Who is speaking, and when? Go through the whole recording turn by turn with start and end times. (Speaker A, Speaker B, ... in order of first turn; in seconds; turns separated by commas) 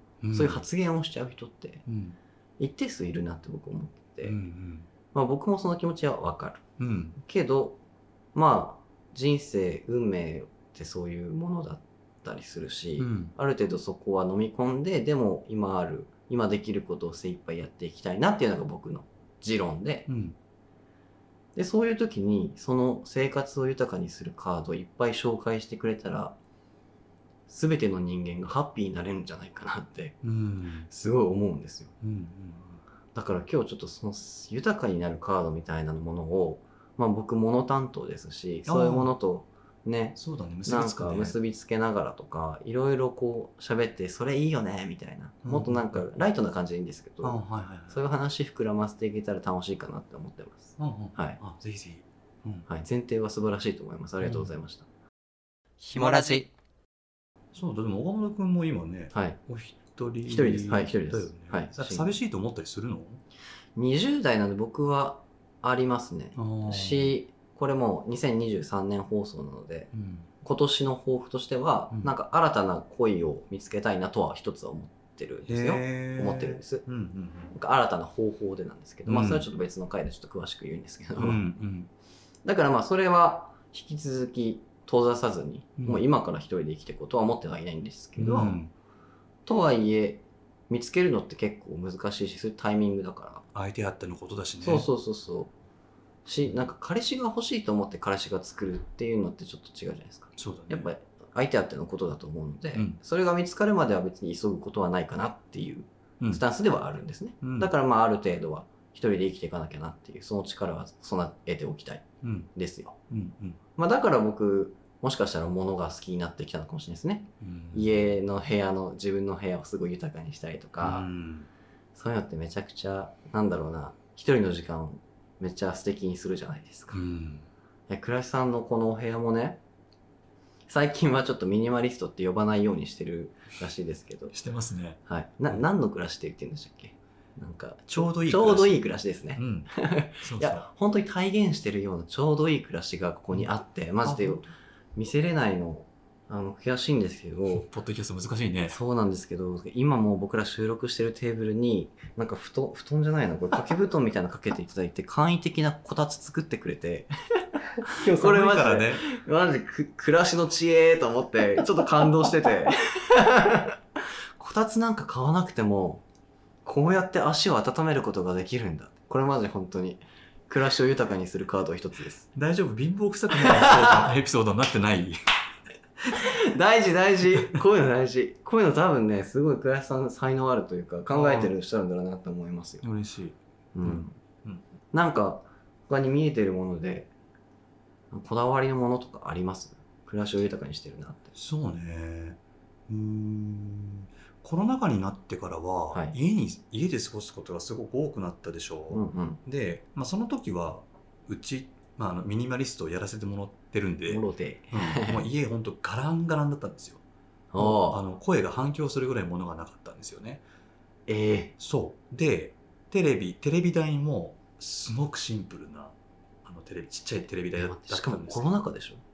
Speaker A: 0.2-0.6, Speaker B: 0.3-1.9, Speaker A: 1.9-2.2, Speaker B: 2.6-4.4, Speaker A: 4.2-4.9, Speaker B: 5.1-6.6, Speaker A: 6.8-7.2, Speaker B: 7.2-7.8, Speaker B: 8.3-20.1, Speaker A: 13.0-13.3, Speaker A: 20.1-20.4, Speaker B: 21.5-26.4, Speaker B: 27.5-30.2, Speaker A: 30.2-30.9, Speaker B: 30.9-31.9, Speaker A: 32.0-32.8, Speaker B: 33.1-47.4, Speaker A: 38.6-39.1, Speaker A: 40.2-41.4, Speaker A: 45.4-46.1, Speaker A: 47.2-48.0, Speaker B: 47.9-51.4, Speaker A: 50.8-52.7, Speaker B: 52.7-54.9, Speaker A: 54.2-54.5, Speaker B: 55.8-56.5, Speaker A: 55.9-56.4, Speaker A: 57.5-63.2, Speaker B: 59.1-59.4, Speaker B: 60.2-62.1, Speaker B: 63.8-69.9, Speaker A: 66.3-67.1, Speaker A: 69.9-70.3, Speaker B: 70.4-76.8, Speaker A: 75.5-77.5, Speaker B: 77.5-81.4, Speaker A: 79.0-79.5, Speaker A: 81.2-81.9, Speaker B: 82.4-88.6, Speaker A: 85.8-86.0, Speaker A: 88.2-88.7, Speaker B: 89.5-93.4, Speaker A: 93.5-94.9, Speaker B: 94.6-95.5, Speaker B: 96.2-113.0, Speaker A: 100.3-100.9, Speaker A: 107.4-107.7, Speaker A: 112.2-112.5, Speaker A: 113.1-113.6, Speaker B: 113.8-121.1, Speaker A: 117.4-118.0, Speaker A: 120.8-121.5, Speaker B: 121.9-127.0, Speaker A: 126.9-127.5, Speaker B: 127.9-129.6, Speaker B: 130.7-134.3, Speaker A: 134.3-135.0, Speaker B: 135.0-147.7, Speaker A: 137.9-138.8, Speaker A: 139.3-140.7, Speaker A: 144.0-144.5, Speaker A: 147.5-148.8, Speaker B: 148.7-163.8, Speaker A: 157.8-159.0, Speaker B: 164.4-166.0, Speaker B: 166.6-172.3, Speaker A: 172.3-175.2, Speaker B: 173.3-174.1, Speaker B: 176.1-182.8, Speaker A: 181.1-181.5, Speaker A: 182.8-184.6, Speaker B: 183.7-184.2, Speaker B: 184.9-187.1, Speaker B: 188.1-191.3, Speaker A: 191.3-207.0, Speaker B: 198.9-199.4, Speaker B: 204.1-205.2, Speaker B: 207.5-208.0, Speaker A: 207.6-210.4, Speaker B: 211.1-211.5, Speaker A: 211.6-218.5, Speaker B: 217.6-219.0